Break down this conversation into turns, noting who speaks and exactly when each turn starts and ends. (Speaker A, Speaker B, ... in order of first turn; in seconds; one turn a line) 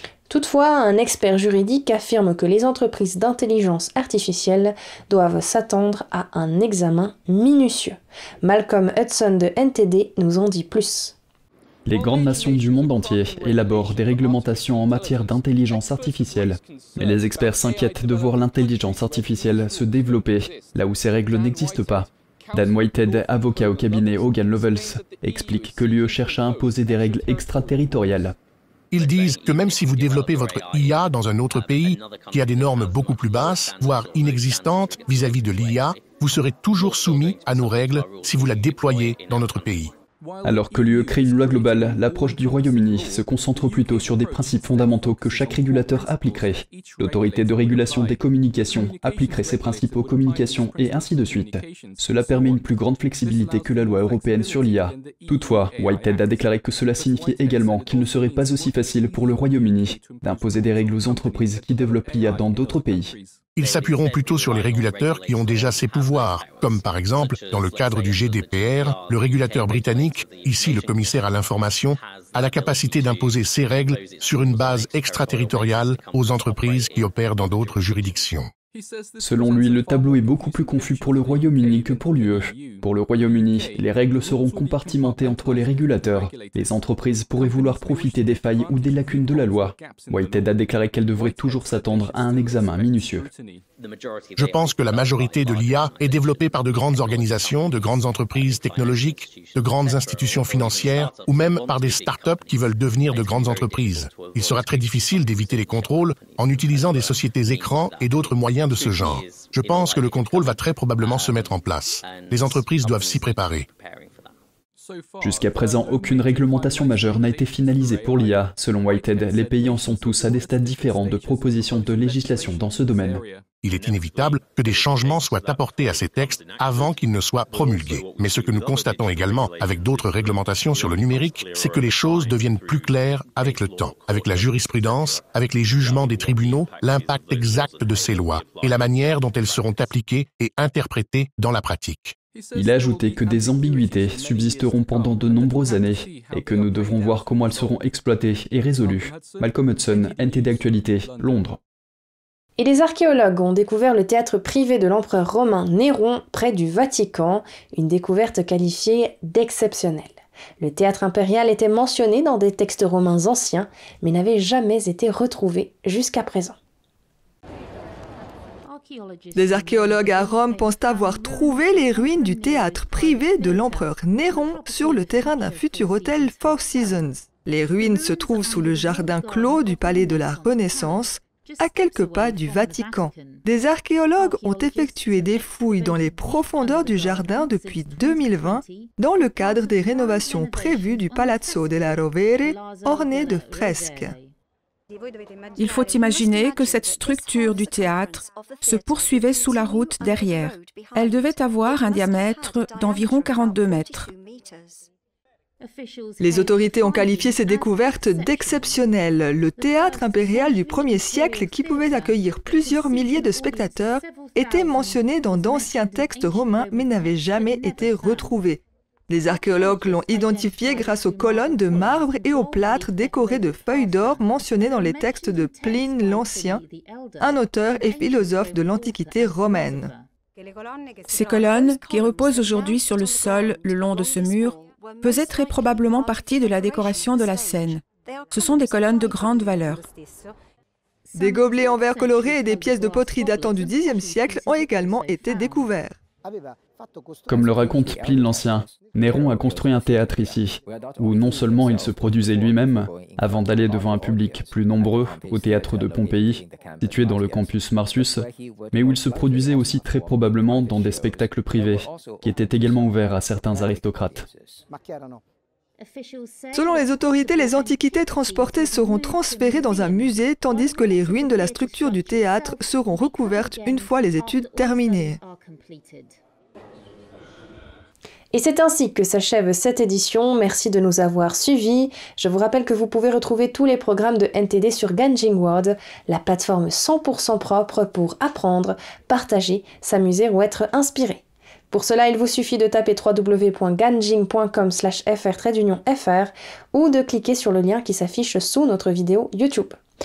Speaker A: 0.3-11.2
Speaker B: 11.8-28.4
Speaker C: 28.9-39.9
Speaker B: 40.4-63.2
Speaker C: 63.5-78.5
Speaker B: 79.2-93.3
Speaker C: 94.3-113.7
Speaker B: 115.2-123.2
Speaker C: 123.6-142.2
Speaker B: 142.5-151.6
Speaker A: 152.6-166.6
Speaker D: 169.3-194.2
Speaker E: 195.6-204.1
Speaker D: 206.2-226.6
Speaker D: 227.2-229.9
Speaker E: 231.1-239.8
Speaker D: 241.1-245.9
Speaker B: 247.3-264.3
Speaker D: 266.5-275.2
Speaker A: 278.3-299.8